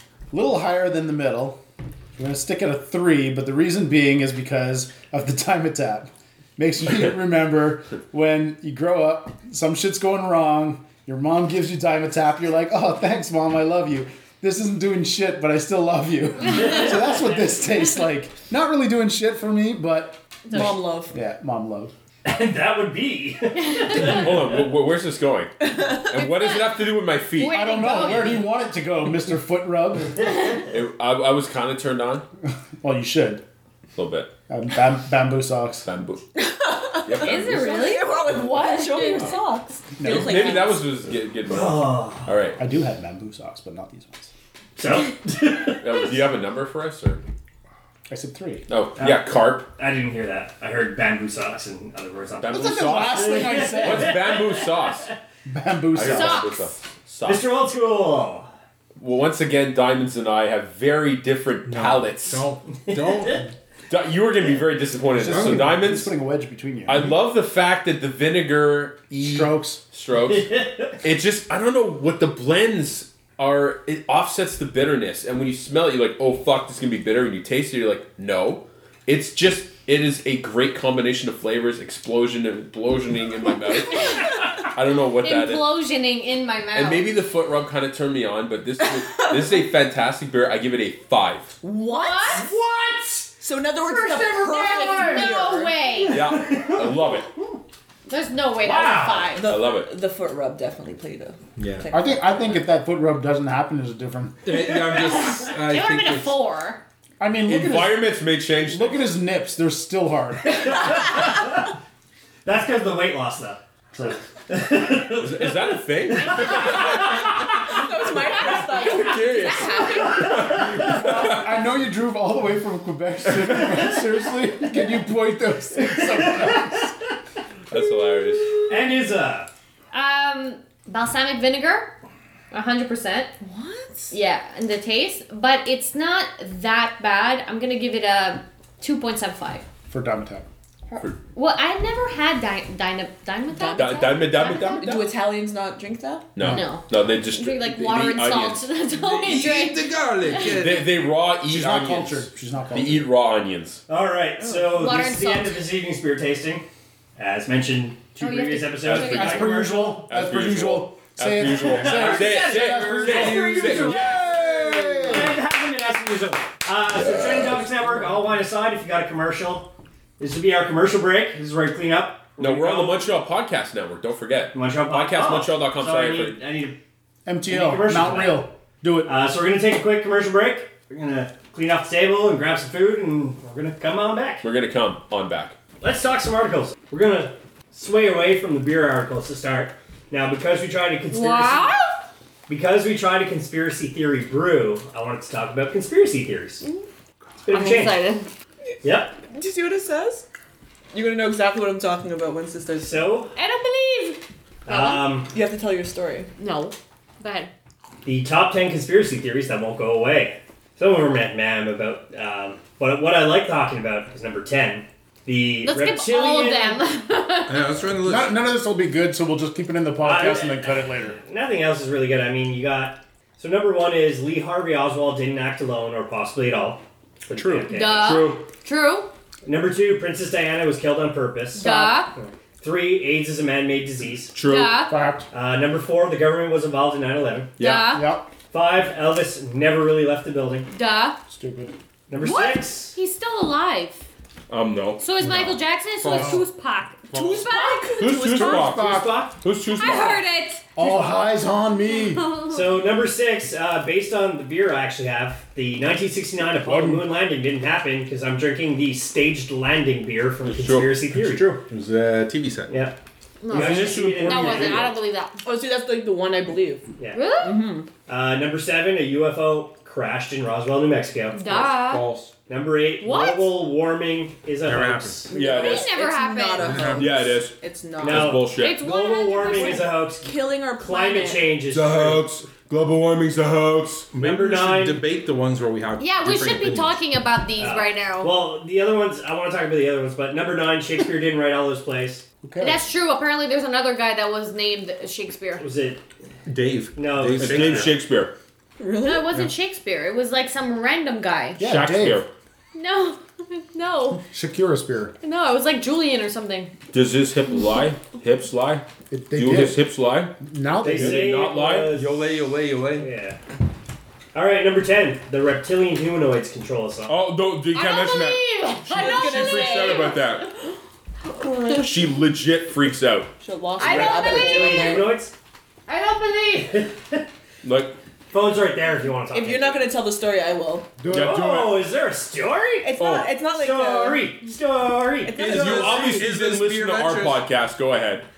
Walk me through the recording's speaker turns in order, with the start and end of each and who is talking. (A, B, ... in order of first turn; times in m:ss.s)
0:00.3-0:01.6 A
0:02.2-0:21.9 A
0:16.5-0:17.3 B
0:20.5-0:21.2 C
0:22.2-0:24.4 B
0:23.7-0:24.0 D
0:23.9-0:27.8 E
0:25.6-0:25.9 C
0:26.2-0:26.8 D
0:27.3-0:28.5 D
0:27.4-0:30.3 A
0:30.6-0:32.3 E
0:32.8-0:33.4 A
0:34.0-0:34.3 E
0:34.5-0:35.9 A
0:35.8-0:36.2 E
0:36.4-0:40.9 C
0:37.1-0:37.6 E
0:37.2-0:39.4 D
0:40.0-0:40.6 A
0:40.0-0:42.6 E
0:41.5-0:42.3 B
0:42.6-0:44.3 A
0:44.8-0:46.2 B
0:45.8-0:47.2 E
0:48.1-0:48.7 A
0:48.7-0:49.7 E
0:49.0-0:55.1 B
0:52.4-0:55.1 E
0:52.5-0:54.3 A
0:55.5-0:56.5 A
0:55.9-0:57.5 E
0:56.0-0:56.8 D
0:57.2-0:58.5 B
0:59.0-1:02.5 E
1:01.7-1:03.5 F
1:02.9-1:03.4 B
1:03.9-1:06.1 E
1:05.1-1:07.2 A
1:05.2-1:05.8 F
1:06.9-1:25.8 E
1:09.2-1:09.8 A
1:10.2-1:10.9 B
1:23.9-1:24.3 D
1:25.2-1:27.1 D
1:26.7-1:31.5 E
1:31.6-1:32.6 C
1:31.9-1:32.4 D
1:32.3-1:33.3 B
1:33.4-1:35.8 C
1:33.9-1:35.3 B
1:34.5-1:36.2 D
1:36.1-1:37.3 E
1:36.1-1:37.4 B
1:38.1-1:39.5 D
1:38.6-1:39.3 B
1:38.8-1:42.4 C
1:39.5-1:39.9 E
1:41.6-1:41.9 F
1:41.9-1:44.6 A
1:44.4-1:46.4 F
1:44.9-1:46.8 D
1:47.2-1:50.8 A
1:47.4-1:49.2 E
1:50.5-1:51.7 B
1:52.4-1:57.3 B
1:55.2-1:57.8 E
1:57.7-2:00.5 C
1:58.4-2:01.6 E
2:00.0-2:00.9 B
2:00.7-2:06.9 A
2:03.3-2:03.8 E
2:05.8-2:06.9 B
2:07.7-2:08.5 E
2:08.7-2:09.5 B
2:09.9-2:11.9 D
2:12.5-2:13.3 D
2:13.4-2:14.1 C
2:14.1-2:19.6 D
2:19.9-2:20.5 A
2:21.3-2:24.8 D
2:23.5-2:26.3 C
2:23.8-2:25.1 E
2:26.4-2:28.7 E
2:26.4-2:26.7 A
2:26.5-2:30.7 D
2:29.0-2:30.9 F
2:30.4-2:33.8 E
2:31.4-2:33.2 A
2:33.9-2:36.7 B
2:34.4-2:34.8 C
2:34.7-2:35.6 D
2:37.2-2:40.0 B
2:38.2-2:39.6 D
2:38.8-2:45.1 E
2:39.1-2:45.4 A
2:41.5-2:44.2 B
2:45.0-2:53.0 B
2:46.9-2:47.8 E
2:52.4-2:56.4 E
2:54.5-2:56.8 B
2:57.3-2:59.1 A
2:57.5-2:58.5 B
2:59.0-3:04.4 B
3:04.4-3:05.6 E
3:05.8-3:11.7 B
3:11.1-3:11.9 D
3:12.5-3:16.6 B
3:17.4-3:18.0 B
3:17.5-3:18.3 D
3:18.8-3:19.2 B
3:19.3-3:20.2 C
3:20.9-3:23.1 C
3:22.8-3:23.3 B
3:23.4-3:25.2 D
3:24.7-3:25.3 B
3:25.3-3:26.3 C
3:26.4-3:27.5 D
3:28.0-3:36.8 B
3:35.6-3:37.6 D
3:37.5-3:38.6 F
3:38.0-3:41.2 A
3:40.0-3:48.3 B
3:47.7-3:49.1 D
3:48.0-3:48.4 E
3:49.4-3:54.3 B
3:51.5-3:52.1 D
3:54.3-3:54.9 E
3:54.4-3:55.0 D
3:54.8-3:55.3 A
3:55.3-3:57.5 B
3:57.6-3:58.0 E
3:57.6-3:58.1 D
3:57.9-3:58.3 A
3:58.5-4:00.7 B
4:00.7-4:01.2 D
4:01.3-4:01.8 A
4:02.1-4:03.0 B
4:02.2-4:04.0 D
4:04.5-4:05.6 E
4:05.0-4:08.3 D
4:06.0-4:06.4 F
4:06.0-4:06.4 A
4:07.4-4:08.6 C
4:08.0-4:10.2 E
4:08.1-4:09.2 A
4:08.6-4:09.4 B
4:09.7-4:10.6 D
4:10.8-4:12.3 A
4:11.9-4:12.8 D
4:12.5-4:21.6 B
4:16.5-4:17.1 A
4:20.5-4:21.0 E
4:21.1-4:22.8 F
4:22.7-4:23.0 B
4:23.4-4:25.4 D
4:23.5-4:24.9 B
4:25.4-4:26.9 C
4:27.1-4:27.6 D
4:27.4-4:27.9 C
4:28.1-4:31.4 B
4:31.3-4:32.0 D
4:31.4-4:32.3 F
4:32.5-4:35.3 B
4:33.0-4:33.6 D
4:34.6-4:35.3 F
4:35.3-4:35.9 E
4:35.3-4:41.6 C
4:35.4-4:36.8 D
4:36.6-4:37.2 F
4:36.8-4:38.8 E
4:38.0-4:42.2 B
4:38.6-4:39.9 D
4:41.7-4:44.1 E
4:44.1-4:47.0 F
4:44.2-4:45.0 B
4:46.0-4:48.3 D
4:47.6-4:52.2 B
4:52.4-4:52.8 A
4:52.6-4:55.6 D
4:55.6-4:56.0 B
4:56.5-4:58.0 F
4:57.0-4:58.0 B
4:57.4-4:58.3 E
4:58.8-4:59.4 C
4:59.0-5:01.6 D
5:01.6-5:02.2 A
5:01.6-5:02.3 E
5:02.7-5:04.2 D
5:04.3-5:05.1 A
5:05.2-5:06.7 D
5:06.9-5:11.9 E
5:09.1-5:11.4 A
5:10.8-5:12.3 B
5:11.9-5:13.1 F
5:13.0-5:13.4 B
5:14.3-5:17.2 B
5:17.1-5:20.5 E
5:17.7-5:20.2 D
5:18.9-5:20.3 C
5:21.3-5:22.0 C
5:21.8-5:23.3 E
5:23.4-5:25.2 C
5:23.8-5:25.1 D
5:23.8-5:25.3 B
5:25.9-5:26.8 D
5:26.7-5:27.3 B
5:27.6-5:28.0 E
5:28.3-5:29.9 B
5:29.3-5:30.9 C
5:31.0-5:31.6 A
5:31.1-5:31.8 E
5:31.1-5:36.3 B
5:32.8-5:34.3 C
5:33.0-5:33.3 E
5:35.2-5:36.2 C
5:35.4-5:38.3 E
5:35.5-5:37.4 F